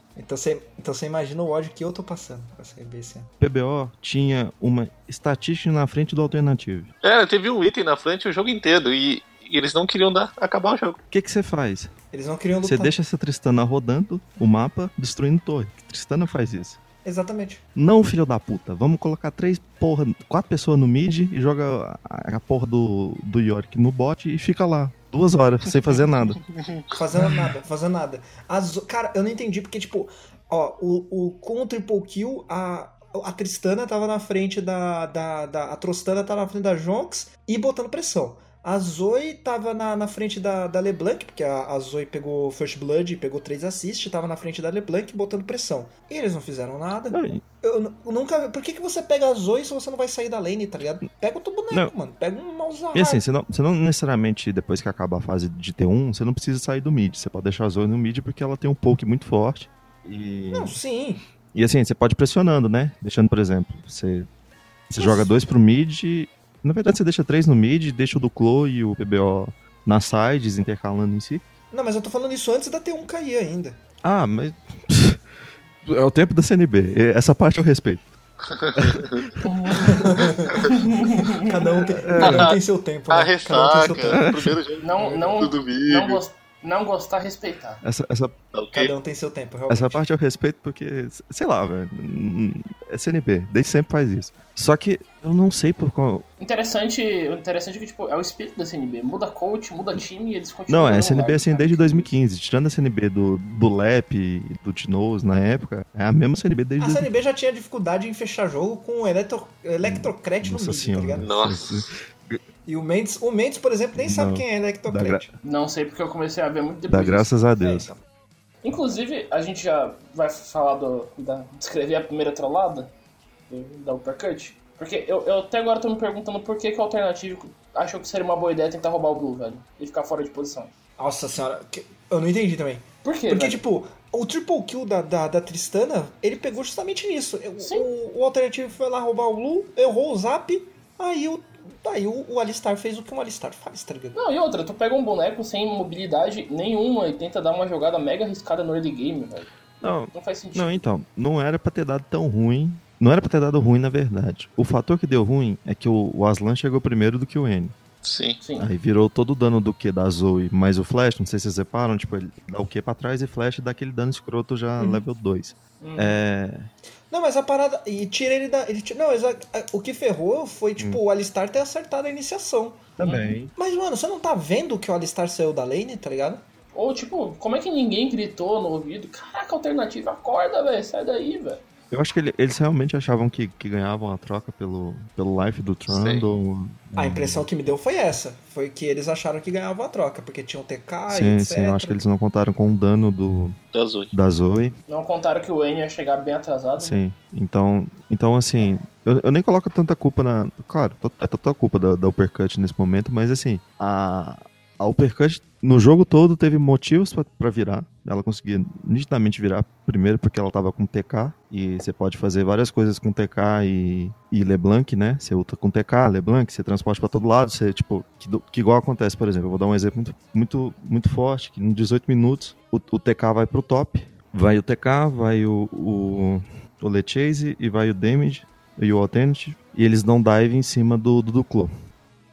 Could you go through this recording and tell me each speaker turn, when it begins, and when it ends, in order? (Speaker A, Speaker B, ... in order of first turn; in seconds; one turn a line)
Speaker A: 0.1-3.3
Speaker B: 3.4-6.9
Speaker C: 7.0-11.0
Speaker B: 11.1-11.9
Speaker A: 12.1-12.9
Speaker B: 12.6-16.8
Speaker A: 17.0-17.6
Speaker B: 17.8-26.4
Speaker A: 26.9-53.2
Speaker B: 47.1-47.4
Speaker B: 52.9-60.8
Speaker A: 60.5-61.2
Speaker B: 61.5-64.3
Speaker B: 64.9-71.4
Speaker A: 65.0-65.3
Speaker A: 71.7-73.8
Speaker B: 74.0-75.2
Speaker B: 75.8-78.1
Speaker C: 78.5-79.2
Speaker B: 78.7-79.4
Speaker D: 79.4-81.5
Speaker A: 79.8-80.7
Speaker A: 81.3-84.2
Speaker B: 82.0-82.5
Speaker C: 82.2-82.6
Speaker C: 83.1-86.2
Speaker B: 84.0-84.6
Speaker D: 84.8-87.8
Speaker B: 87.8-88.3
Speaker C: 88.5-88.9
Speaker A: 88.7-90.0
Speaker B: 89.7-96.2
Speaker D: 96.4-102.2
Speaker B: 100.7-107.1
Speaker A: 106.8-111.3
Speaker B: 109.8-112.4
Speaker C: 111.2-111.8
Speaker A: 112.7-115.3
Speaker B: 113.9-115.3
Speaker D: 115.4-117.3
Speaker B: 116.9-117.9
Speaker A: 117.6-118.0
Speaker D: 118.6-122.9
Speaker D: 123.5-130.7
Speaker A: 131.0-144.2
Speaker D: 133.0-133.6
Speaker D: 137.6-137.9
Speaker D: 144.1-149.5
Speaker B: 149.8-157.7
Speaker D: 150.1-150.9
Speaker C: 158.0-158.4
Speaker D: 158.4-158.7
Speaker B: 158.6-166.7
Speaker D: 165.8-166.2
Speaker A: 167.1-172.9
Speaker B: 173.0-173.5
Speaker D: 173.0-173.4
Speaker A: 173.5-176.4
Speaker D: 176.7-181.6
Speaker B: 181.9-187.5
Speaker C: 185.9-186.2
Speaker A: 186.9-192.0
Speaker B: 191.1-193.6
Speaker C: 193.7-194.1
Speaker B: 194.1-194.8
Speaker D: 194.9-197.0
Speaker B: 196.8-231.7